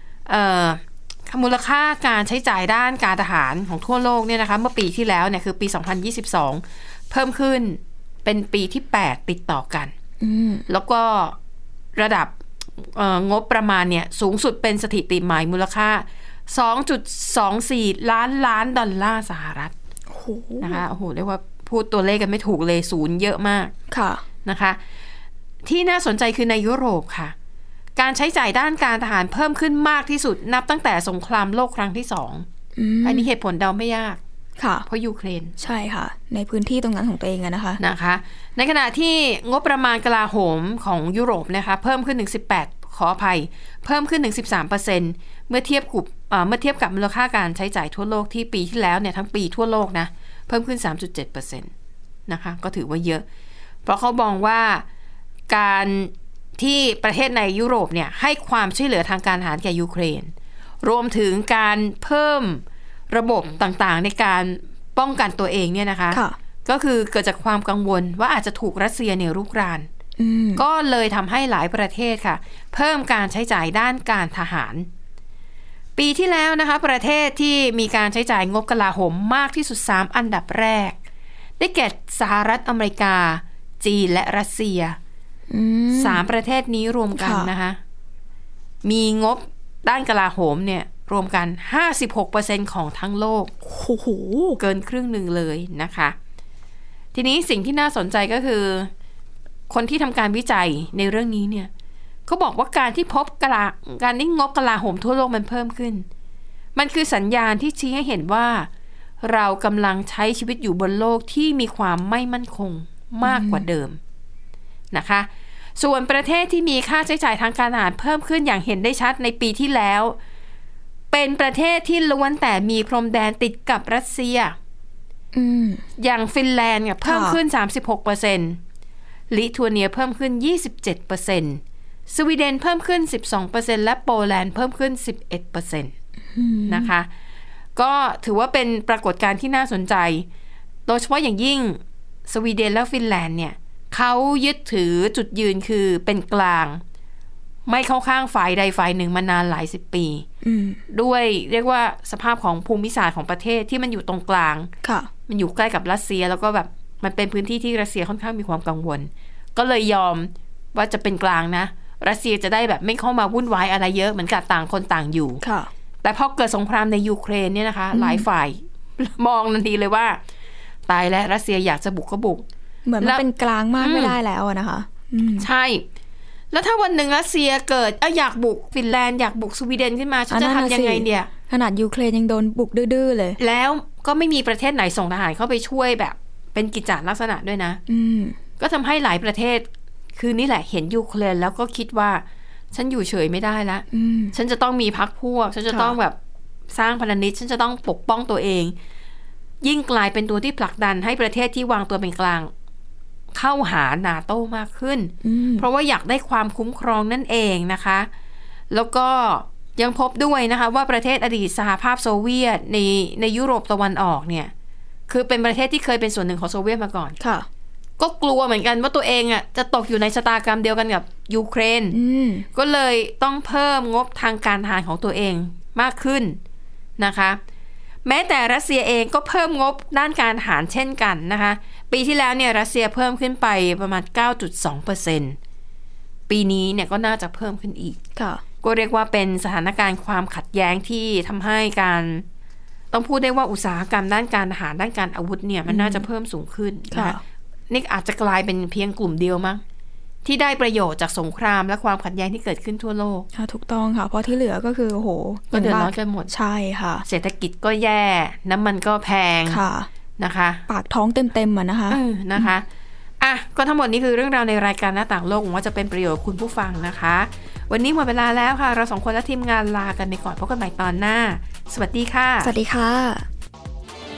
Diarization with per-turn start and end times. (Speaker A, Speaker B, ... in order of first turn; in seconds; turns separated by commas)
Speaker A: 0.2-9.9, Speaker B: 10.2-10.7, Speaker A: 10.7-11.4, Speaker A: 11.9-19.7, Speaker B: 20.1-20.8, Speaker A: 20.6-23.7, Speaker B: 23.9-24.2, Speaker A: 24.4-24.8, Speaker A: 25.6-27.3, Speaker A: 27.9-32.5, Speaker B: 32.8-33.3, Speaker A: 33.0-34.2, Speaker B: 34.6-34.9, Speaker A: 34.8-35.5, Speaker B: 35.6-37.8, Speaker A: 37.8-51.7, Speaker A: 52.3-53.2, Speaker A: 53.9-54.8, Speaker A: 55.5-60.3, Speaker A: 60.8-69.9, Speaker B: 66.1-66.4, Speaker B: 70.2-70.6, Speaker A: 70.5-74.9, Speaker A: 76.0-81.0, Speaker A: 81.6-85.0, Speaker B: 85.5-86.2, Speaker A: 85.9-87.8, Speaker B: 87.2-87.5, Speaker A: 88.8-93.5, Speaker B: 93.6-94.6, Speaker A: 94.6-96.2, Speaker A: 97.1-98.9, Speaker A: 99.7-101.7, Speaker A: 102.3-106.0, Speaker A: 106.7-108.7, Speaker A: 109.2-114.0, Speaker B: 113.2-113.6, Speaker A: 114.9-120.2, Speaker A: 121.1-124.5, Speaker B: 125.3-125.8, Speaker A: 126.0-128.6, Speaker B: 127.0-127.4, Speaker A: 129.3-135.9, Speaker B: 136.3-136.9, Speaker A: 136.7-137.1, Speaker A: 137.8-140.3, Speaker A: 140.9-146.8, Speaker A: 147.7-150.2, Speaker B: 150.4-150.8, Speaker A: 150.9-154.7, Speaker B: 154.8-155.1, Speaker A: 155.3-165.4, Speaker B: 165.4-165.7, Speaker A: 166.0-170.2, Speaker B: 167.9-168.2, Speaker A: 170.9-172.4, Speaker B: 172.8-175.5, Speaker A: 173.8-174.2, Speaker A: 175.4-175.8, Speaker A: 176.5-181.3, Speaker B: 180.3-183.4, Speaker A: 183.4-187.8, Speaker B: 187.9-188.4, Speaker A: 188.6-196.2, Speaker B: 193.9-194.3, Speaker B: 195.7-195.9, Speaker A: 196.7-198.8, Speaker A: 199.6-202.5, Speaker A: 203.3-208.1, Speaker B: 205.2-205.7, Speaker A: 208.7-214.5, Speaker A: 215.1-217.1, Speaker B: 217.2-217.5, Speaker A: 218.0-222.0, Speaker B: 221.9-222.5, Speaker A: 222.5-226.4, Speaker A: 227.0-227.4, Speaker A: 228.0-235.4, Speaker A: 236.3-238.0, Speaker B: 238.2-238.4, Speaker A: 238.6-242.2, Speaker A: 242.9-247.2, Speaker B: 245.7-246.0, Speaker B: 246.9-247.2, Speaker A: 247.7-249.6, Speaker A: 250.2-253.3, Speaker B: 253.3-257.0, Speaker A: 255.5-256.3, Speaker A: 257.0-259.6, Speaker B: 259.5-259.9, Speaker A: 260.2-260.6, Speaker B: 260.7-262.5, Speaker A: 261.9-262.6, Speaker A: 263.2-272.5, Speaker B: 272.4-273.3